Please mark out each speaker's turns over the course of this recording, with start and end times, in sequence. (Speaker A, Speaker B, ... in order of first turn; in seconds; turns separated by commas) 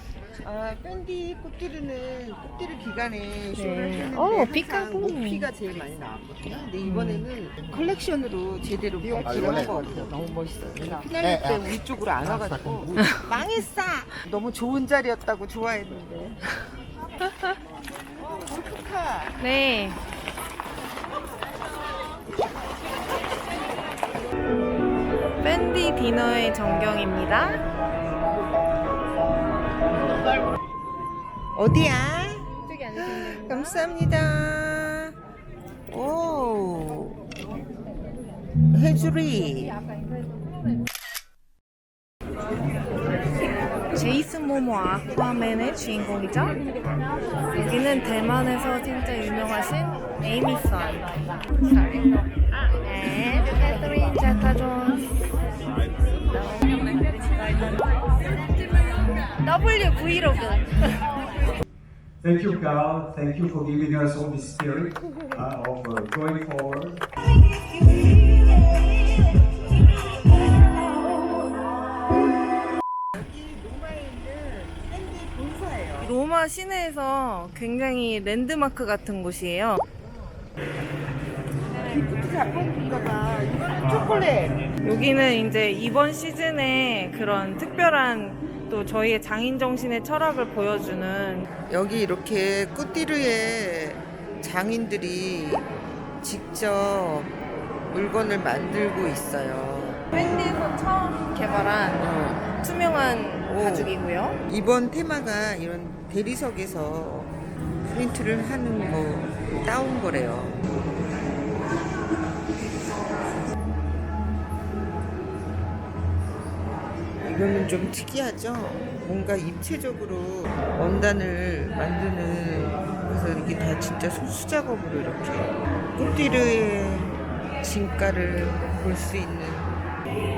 Speaker A: 0.4-16.4, Speaker B: 3.5-5.5, Speaker B: 6.8-7.3, Speaker B: 13.0-13.3, Speaker B: 17.2-17.5, Speaker A: 18.1-19.4, Speaker B: 19.4-20.0, Speaker B: 25.4-27.6, Speaker A: 31.5-35.1, Speaker B: 32.6-33.8, Speaker A: 35.9-37.2, Speaker A: 38.7-39.8, Speaker B: 43.9-46.6, Speaker B: 47.5-52.0, Speaker B: 52.8-55.1, Speaker B: 59.4-61.1, Speaker C: 62.2-67.0, Speaker A: 73.1-76.1, Speaker B: 76.0-79.8, Speaker A: 81.7-84.6, Speaker B: 84.8-91.5, Speaker A: 91.7-95.7, Speaker A: 96.2-97.3, Speaker A: 97.9-100.0, Speaker B: 100.1-104.4, Speaker A: 102.0-102.5, Speaker A: 103.5-103.9, Speaker A: 104.5-107.3, Speaker A: 107.9-110.6, Speaker A: 117.2-129.8